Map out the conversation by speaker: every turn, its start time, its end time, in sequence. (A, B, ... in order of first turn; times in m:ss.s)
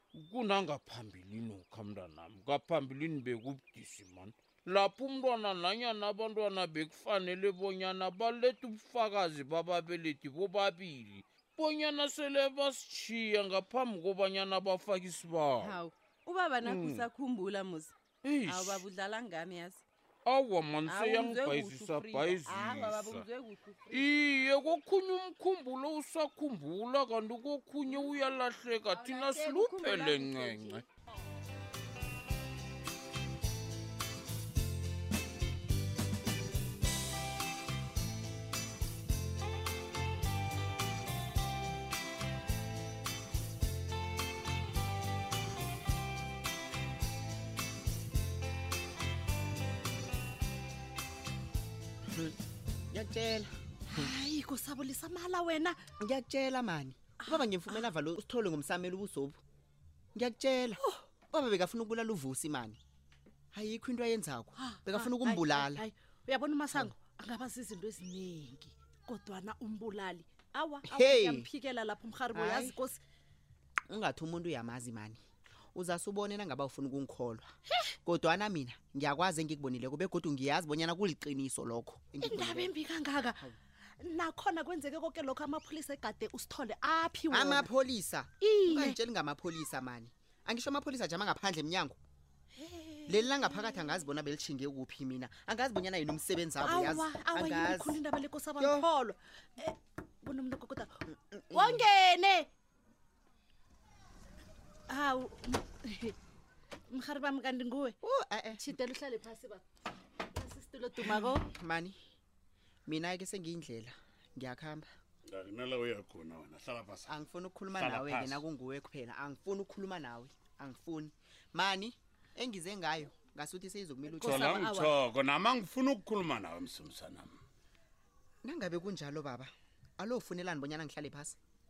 0:00.1-0:15.8 A
0:15.6-0:18.0 B
0:16.6-0:17.1 A
0:18.2-0:18.9 A
0:18.5-0:19.8 B
0:20.2-0:23.3 A
0:20.9-0:24.1 B
0:23.9-0:30.8 A
0:29.0-0:30.8 B
0:52.9-0:54.1 C
0:53.9-0:55.8 D
0:56.0-0:59.4 C
0:57.2-0:57.8 D
1:00.2-1:02.8 C
1:03.5-1:05.9 C
1:04.6-1:13.0 D
1:10.8-1:11.5 C
1:12.3-1:12.8 C
1:13.9-1:15.2 C
1:15.7-1:17.5 C
1:18.0-1:22.8 C
1:22.2-1:23.5 D
1:24.0-1:27.7 D
1:27.3-1:32.0 C
1:28.4-1:29.0 D
1:32.6-1:33.9 D
1:33.1-1:38.0 C
1:36.6-1:41.0 D
1:38.6-1:38.9 C
1:41.3-1:41.9 C
1:41.5-1:42.5 D
1:44.9-1:46.2 D
1:46.9-1:48.0 D
1:48.0-1:48.6 C
1:48.6-1:49.6 D
1:50.3-1:51.5 D
1:51.0-1:52.0 C
1:52.9-1:54.9 C
1:55.3-1:57.1 E
1:57.1-2:04.8 C
1:57.8-1:58.4 E
2:04.2-2:05.0 D
2:04.2-2:07.4 E
2:08.4-2:11.4 C